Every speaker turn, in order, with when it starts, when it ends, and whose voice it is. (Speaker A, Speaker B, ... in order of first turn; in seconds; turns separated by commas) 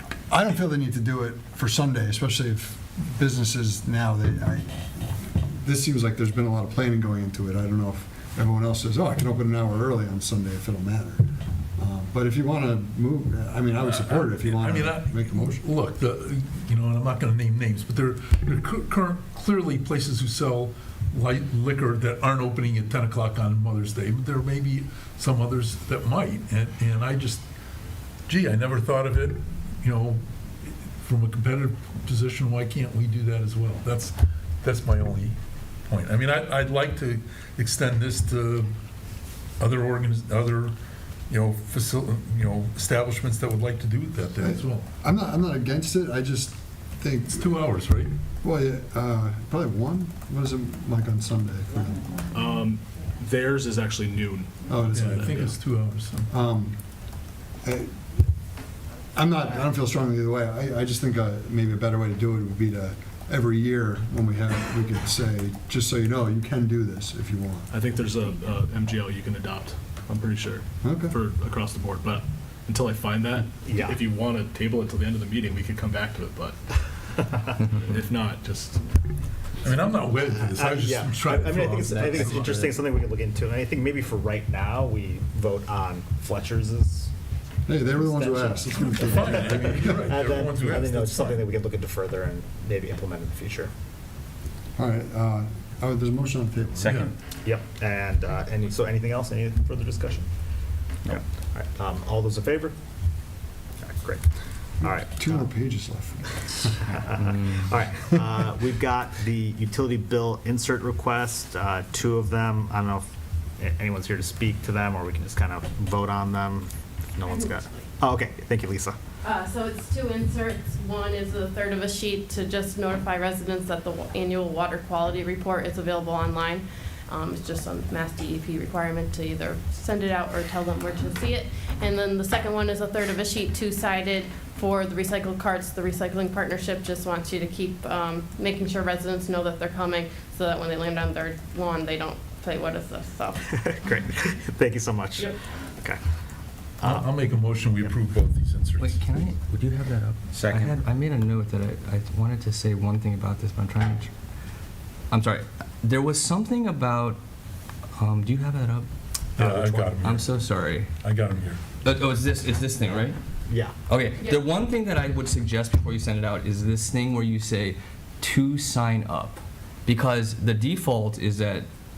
Speaker A: 0.3-15.6, Speaker B: 13.8-27.4, Speaker B: 28.3-35.4, Speaker B: 35.9-38.7, Speaker B: 39.6-40.8, Speaker B: 41.3-44.9, Speaker A: 44.4-47.6, Speaker B: 47.3-48.1, Speaker A: 48.4-52.1, Speaker C: 52.3-55.5, Speaker A: 54.7-55.4, Speaker B: 54.9-56.3, Speaker A: 56.3-56.8, Speaker A: 57.6-58.0, Speaker A: 59.1-67.7, Speaker C: 67.7-76.6, Speaker A: 70.8-71.2, Speaker D: 73.7-74.0, Speaker C: 77.7-78.8, Speaker B: 79.6-82.6, Speaker D: 80.5-87.1, Speaker E: 81.9-82.8, Speaker A: 87.7-90.1, Speaker D: 87.8-93.7, Speaker B: 89.0-91.5, Speaker A: 94.8-97.1, Speaker D: 96.8-100.3, Speaker B: 96.8-97.1, Speaker D: 101.0-102.8, Speaker D: 103.8-104.2, Speaker A: 104.8-106.8, Speaker D: 104.8-105.5, Speaker D: 106.9-113.1, Speaker E: 107.2-107.7, Speaker D: 113.6-119.0, Speaker F: 117.3-117.8, Speaker F: 119.2-143.5, Speaker D: 143.5-146.0, Speaker D: 146.8-147.2, Speaker B: 146.8-149.3, Speaker E: 148.8-154.1, Speaker D: 150.3-150.8, Speaker E: 155.1-157.2, Speaker E: 157.9-158.9, Speaker B: 159.4-161.6, Speaker D: 159.4-159.9, Speaker E: 160.0-160.9, Speaker E: 161.8-163.2, Speaker D: 163.5-163.7, Speaker E: 163.9-171.7